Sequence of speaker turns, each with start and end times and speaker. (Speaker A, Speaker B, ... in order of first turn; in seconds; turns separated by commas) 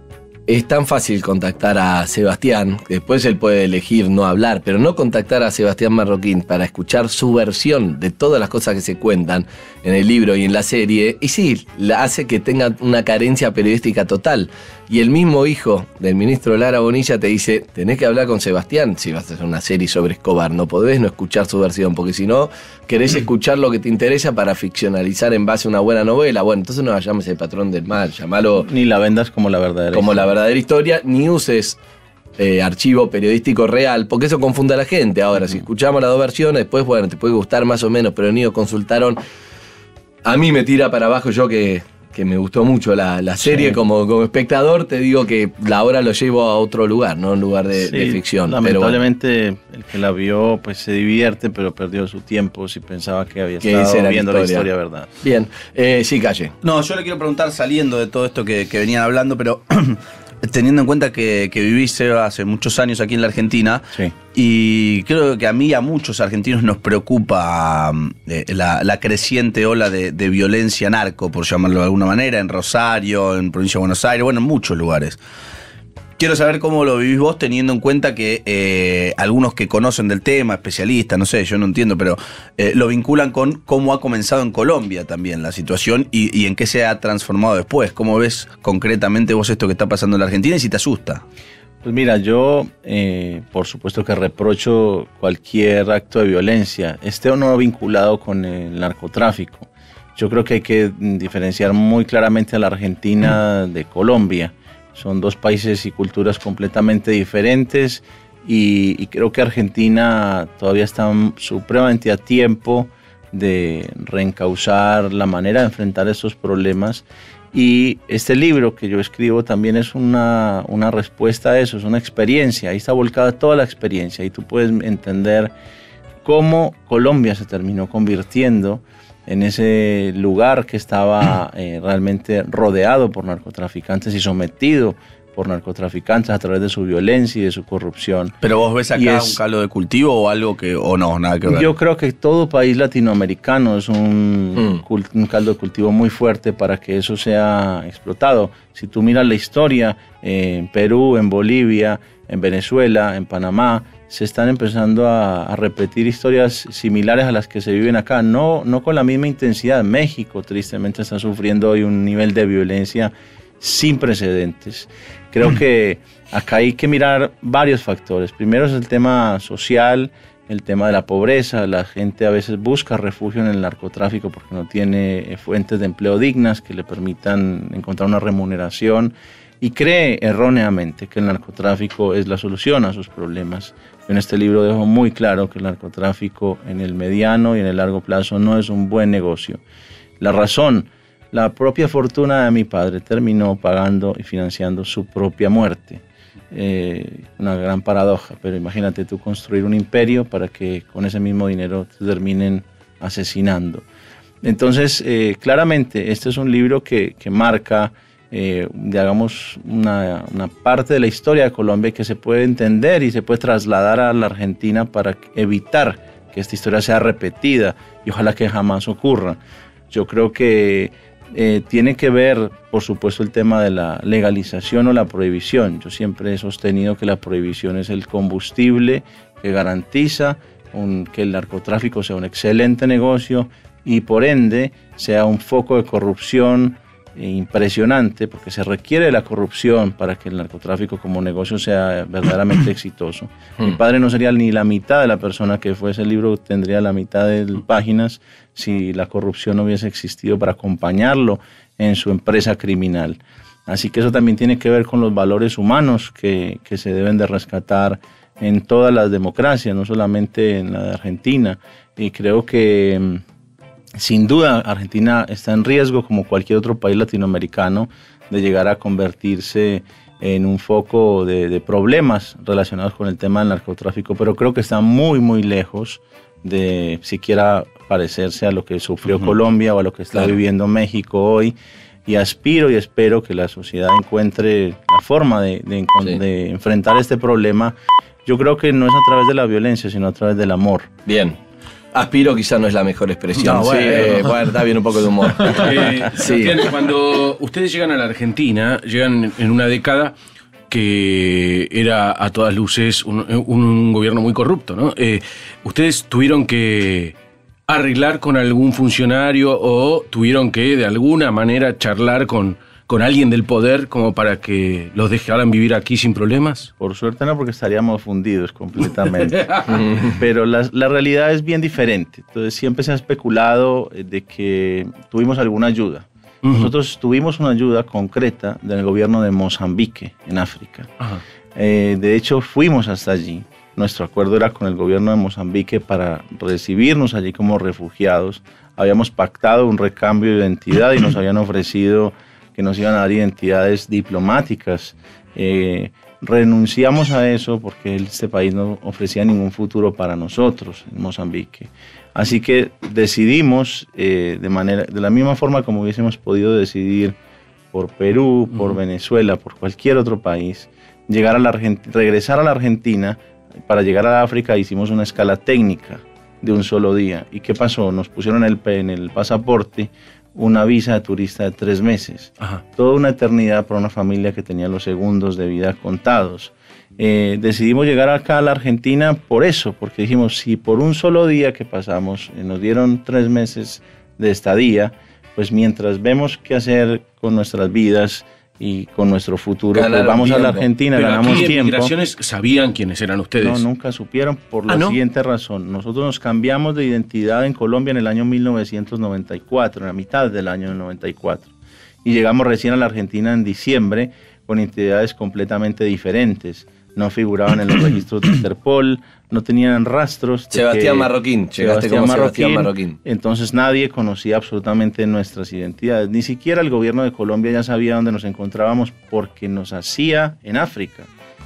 Speaker A: 0.5-28.7, Speaker B: 28.6-30.3, Speaker A: 29.9-31.8, Speaker A: 32.4-39.2, Speaker A: 40.2-49.0, Speaker B: 43.4-43.8, Speaker B: 47.8-55.1, Speaker A: 53.6-54.7, Speaker A: 55.2-56.5, Speaker C: 56.6-75.2, Speaker C: 76.2-91.2, Speaker B: 91.8-125.5, Speaker B: 126.2-138.3, Speaker C: 138.4-141.7, Speaker B: 138.9-139.4, Speaker B: 141.4-189.6, Speaker B: 190.2-203.8, Speaker B: 204.4-219.4, Speaker B: 219.9-263.2, Speaker B: 263.9-281.5, Speaker B: 282.1-290.9, Speaker A: 291.1-291.4, Speaker A: 291.9-296.6, Speaker C: 293.5-294.0, Speaker D: 293.6-294.3, Speaker D: 295.4-300.1, Speaker D: 300.7-307.1, Speaker D: 307.7-316.7, Speaker B: 316.8-330.9, Speaker D: 326.4-326.7, Speaker B: 331.5-357.1, Speaker B: 357.7-391.9, Speaker A: 389.7-390.6, Speaker D: 390.9-393.6, Speaker B: 393.4-401.5, Speaker B: 402.0-421.1, Speaker A: 410.5-413.0